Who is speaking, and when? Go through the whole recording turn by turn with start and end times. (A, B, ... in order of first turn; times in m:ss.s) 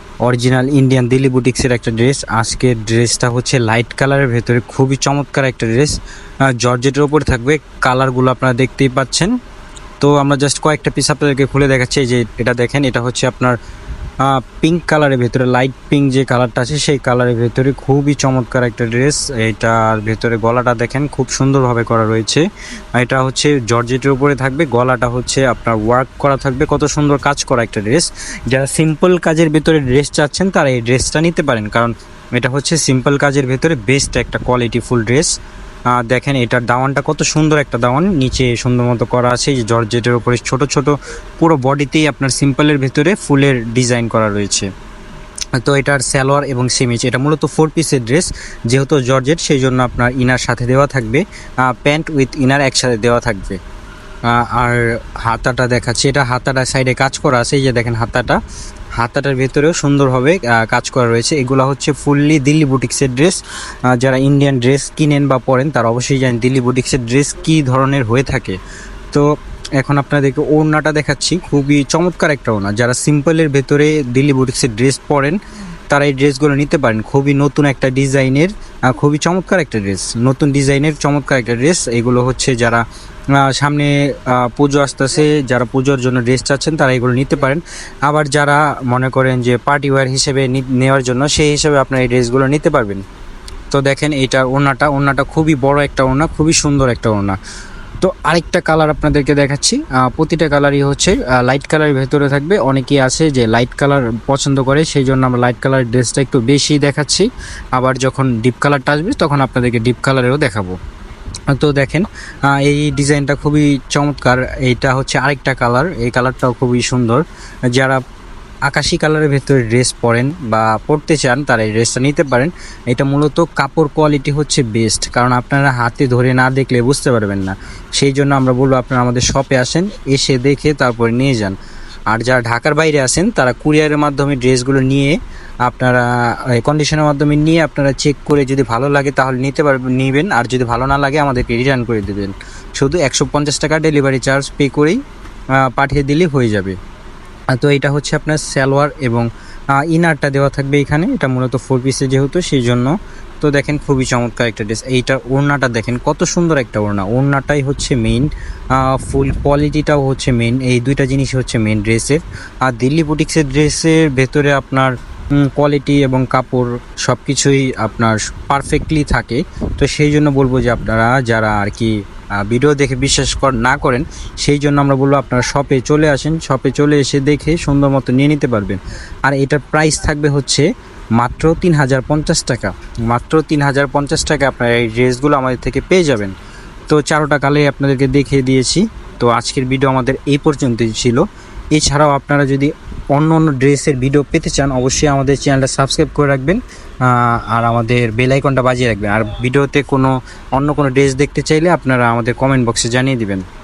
0:00.2-0:05.9 A
0:06.5-0:09.3 A
0:10.0-0:13.6 A
0:14.2-0:35.3 A
0:35.9-0:44.7 A
0:45.6-0:53.6 A
0:54.3-0:58.4 A
0:59.0-1:03.4 A
1:03.9-1:08.6 A
1:09.1-1:15.4 A
1:15.9-1:22.8 A
1:23.4-1:33.0 A
1:33.7-1:37.4 A
1:38.0-1:50.8 A
1:51.5-1:58.0 A
1:58.7-2:11.6 A
2:12.1-2:25.0 A
2:25.6-2:26.8 A
2:27.5-3:06.3 A
3:06.9-3:23.4 A